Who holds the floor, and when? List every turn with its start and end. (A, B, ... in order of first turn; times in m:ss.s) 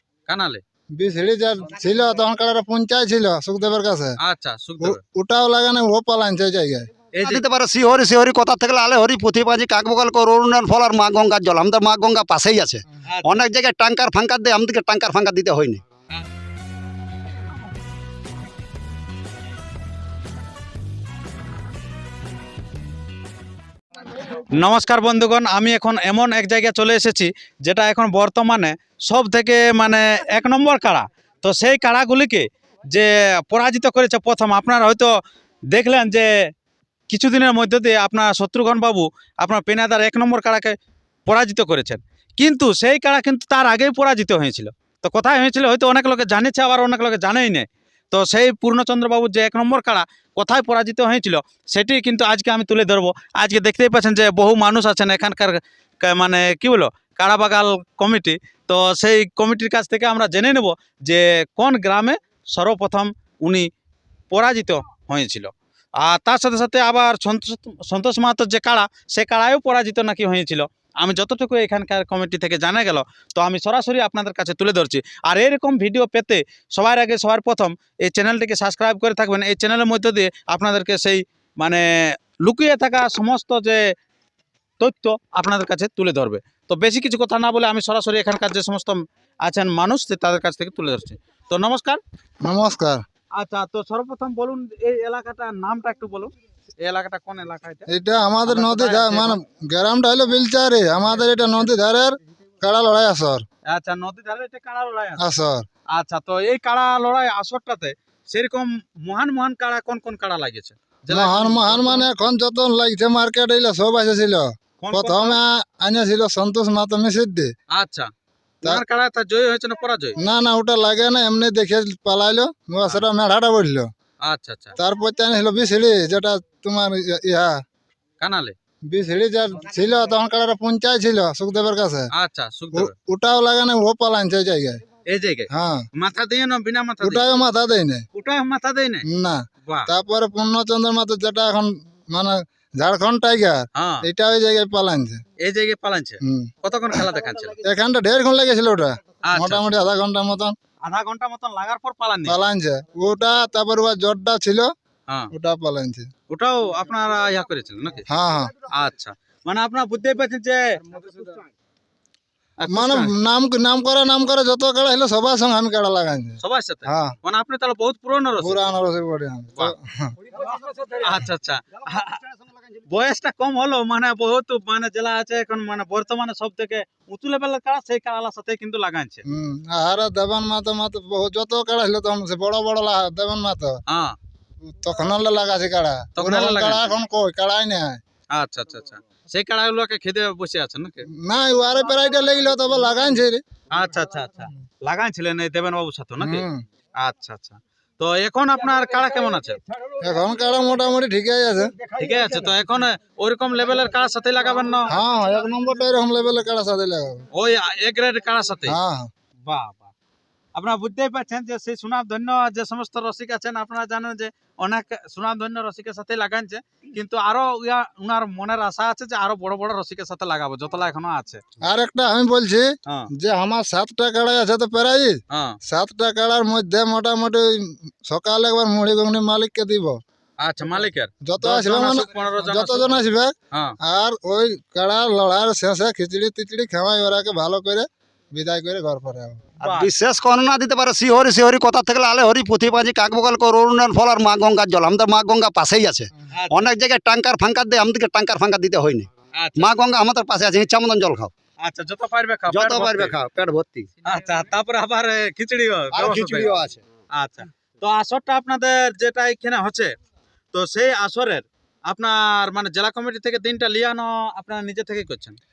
0:00.3-0:00.6 A
0:01.0-0:04.2 B
0:04.2-0:05.0 A
0:04.8-0:06.9 B
0:07.1-0:07.4 A
0:07.2-0:15.8 C
0:13.1-0:13.5 A
0:24.3-0:35.2 A
0:35.7-0:36.3 A
0:37.1-0:40.8 A
0:41.3-1:03.7 A
1:04.3-1:23.9 A
1:24.8-1:32.0 A
1:32.4-1:33.0 B
1:33.4-1:37.9 A
1:37.9-1:43.4 B
1:38.5-1:39.4 A
1:43.7-1:45.2 A
1:45.2-1:45.7 B
1:45.9-1:52.1 A
1:51.1-1:57.5 B
1:54.8-1:55.4 A
1:57.7-1:58.1 A
1:58.6-2:00.2 A
2:00.2-2:03.9 B
2:04.2-2:04.8 A
2:04.8-2:07.6 B
2:08.2-2:08.5 A
2:08.9-2:12.1 B
2:12.1-2:12.9 A
2:12.7-2:14.8 B
2:15.1-2:17.3 A
2:15.5-2:15.8 B
2:17.0-2:18.1 B
2:18.1-2:19.1 A
2:19.1-2:25.2 B
2:23.8-2:24.1 A
2:25.4-2:27.6 A
2:26.2-2:26.5 B
2:27.6-2:30.6 B
2:29.3-2:29.6 A
2:30.8-2:32.4 A
2:32.3-2:34.7 B
2:35.3-2:36.1 B
2:36.3-2:38.1 A
2:38.1-2:38.6 B
2:38.7-2:41.1 A
2:42.6-2:43.1 A
2:42.7-2:47.2 B
2:46.4-2:48.6 A
2:48.4-2:50.2 B
2:50.6-2:51.1 C
2:51.0-2:52.2 A
2:51.9-2:52.8 C
2:52.9-2:59.2 A
2:59.3-3:03.8 B
3:03.9-3:04.2 A
3:04.6-3:08.0 B
3:06.2-3:07.0 A
3:08.3-3:11.1 A
3:11.1-3:13.4 B
3:13.7-3:16.4 A
3:16.2-3:16.6 B
3:17.0-3:19.6 A
3:20.0-3:21.7 B
3:22.0-3:24.9 A
3:24.9-3:27.2 B
3:27.3-3:28.8 A
3:28.7-3:29.1 B
3:29.4-3:29.9 A
3:30.6-3:41.4 A
3:41.6-3:50.0 B
3:45.3-3:45.6 A
3:50.4-3:53.0 A
3:51.2-3:59.5 B
3:59.6-3:59.9 A
3:59.6-4:11.3 C
4:06.3-4:06.7 A
4:09.4-4:09.7 A
4:11.6-4:13.2 A
4:12.5-4:13.9 C
4:14.0-4:16.5 A
4:15.9-4:16.8 C
4:17.1-4:19.9 A
4:20.5-4:25.4 A